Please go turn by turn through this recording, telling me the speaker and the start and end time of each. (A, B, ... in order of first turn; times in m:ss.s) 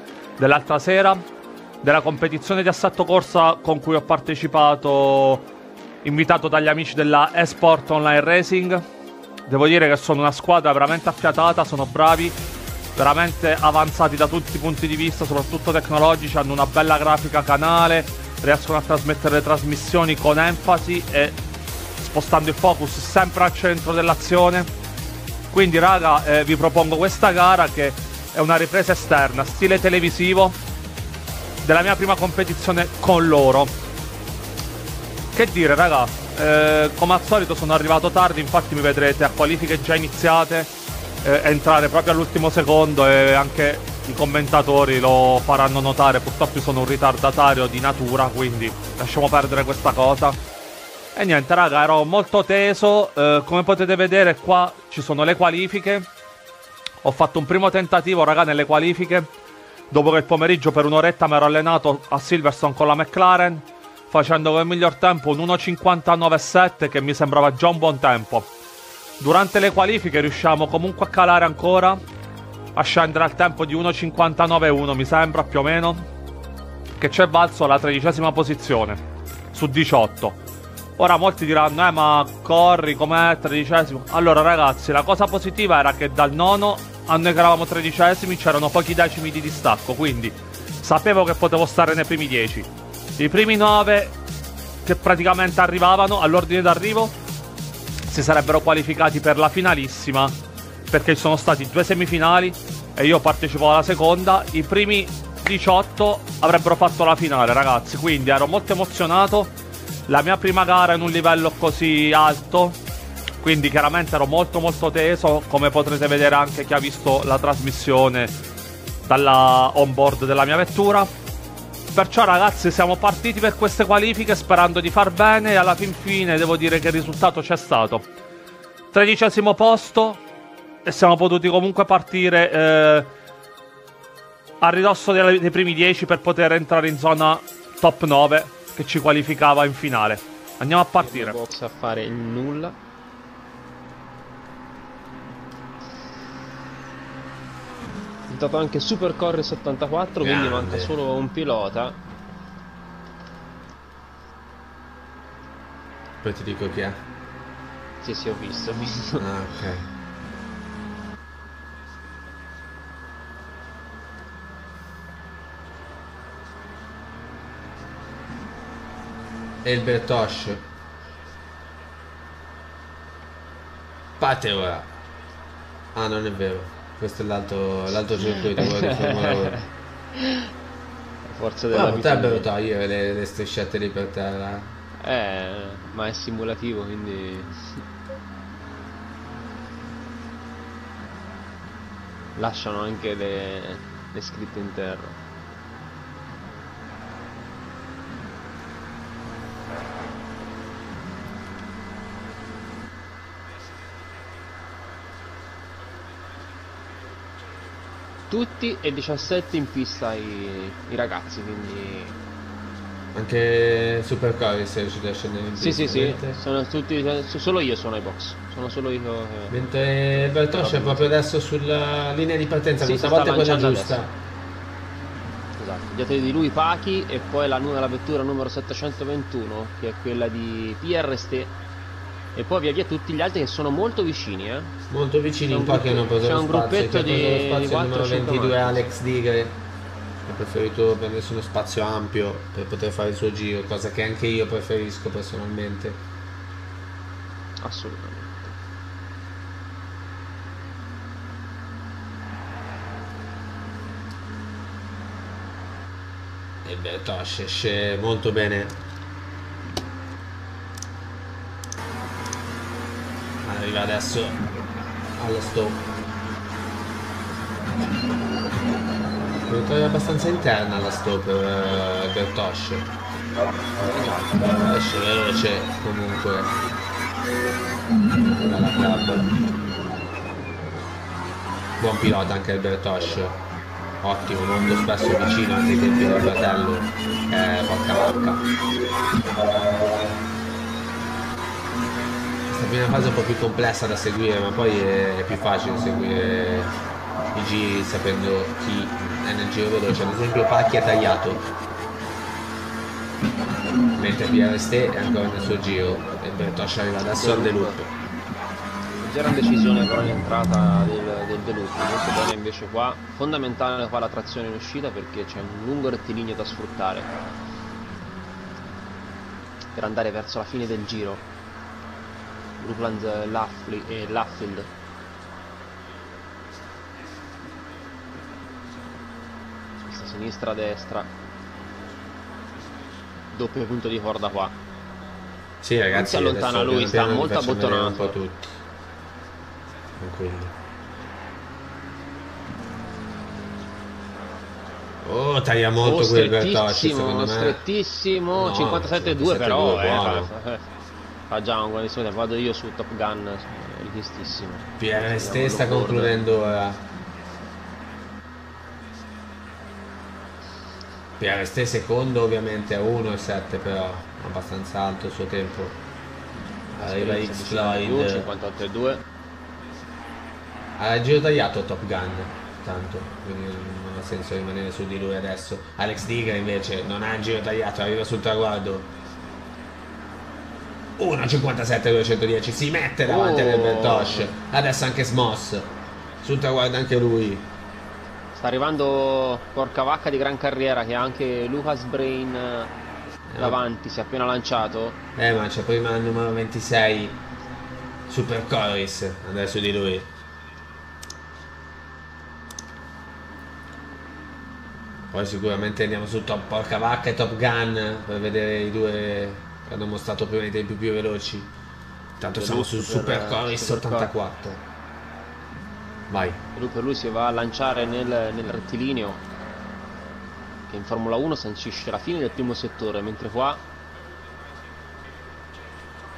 0:00.4-0:01.2 A
0:01.8-0:05.4 A
0:06.0-0:08.8 A
0:09.5-0:12.4 A
0:13.0-0:21.4 A
0:22.0-0:24.7 A
0:25.5-0:30.6 A
0:31.6-0:33.7 A
0:35.3-0:40.7 A
0:41.2-0:50.4 A
0:51.1-0:56.1 A
0:57.0-0:59.3 A
0:59.9-1:08.5 A
1:09.2-1:12.0 A
1:12.8-1:16.0 A
1:17.0-1:19.0 A
1:19.5-1:20.4 A
1:21.0-1:34.1 A
1:34.8-1:37.1 A
1:38.1-1:40.4 A
1:40.9-1:49.5 A
1:50.1-1:52.8 A
1:53.4-1:58.3 A
1:59.0-2:01.1 A
2:01.9-2:08.0 A
2:08.9-2:10.2 A
2:10.8-2:13.1 A
2:14.6-2:21.4 A
2:21.0-2:22.8 B
2:28.3-2:32.0 B
2:30.2-2:31.0 C
2:36.2-2:37.0 C
2:38.0-2:39.3 B
2:39.2-2:39.9 C
2:49.6-2:50.6 C
2:54.2-2:54.9 C
2:55.9-2:59.6 C
2:58.2-3:00.5 B
3:01.2-3:02.5 B
3:01.7-3:04.8 C
3:05.0-3:07.8 B
3:12.4-3:15.2 B
3:28.3-3:32.2 B
3:33.1-3:36.4 C
3:35.6-3:39.6 B
3:39.5-3:44.2 C
3:40.2-3:41.2 B
3:42.8-3:44.0 B
3:45.6-3:51.6 B
3:52.3-3:54.7 B
3:54.9-3:59.6 C
3:55.5-3:58.9 B
4:00.2-4:06.0 C
4:07.6-4:08.6 B
4:16.6-4:18.8 C
4:23.4-4:24.4 C
4:25.1-4:25.9 C
4:29.4-4:32.9 C
4:33.8-4:34.6 B
4:34.5-4:36.5 C
4:38.2-4:39.3 C
4:41.8-4:43.4 C
4:44.0-4:48.4 C
4:52.5-4:56.7 C
4:57.3-5:01.5 C
5:04.0-5:07.9 C
5:07.1-5:07.8 B
5:09.0-5:17.1 B
5:19.7-5:21.2 B
5:22.6-5:24.7 B
5:29.8-5:31.1 B
5:33.3-5:34.6 B
5:35.6-5:38.6 C
5:35.9-5:38.2 B
5:40.0-5:40.5 C
5:45.0-5:47.6 C
5:45.8-5:50.6 B
5:48.3-5:50.3 C
5:51.3-5:56.2 B
5:54.8-5:56.8 C
6:01.2-6:05.8 C
6:06.7-6:09.0 B
6:06.8-6:08.3 C
6:10.8-6:18.9 C
6:21.0-6:27.5 C
6:23.0-6:24.3 B
6:28.4-6:32.7 B
6:33.3-6:33.6 C
6:33.4-6:35.0 B
6:35.2-6:37.2 C
6:38.1-6:40.1 C
6:45.1-6:51.5 C
6:52.2-6:54.6 C
6:52.3-6:54.1 B
6:56.1-6:56.4 C
6:56.5-6:59.2 B
7:00.7-7:03.6 B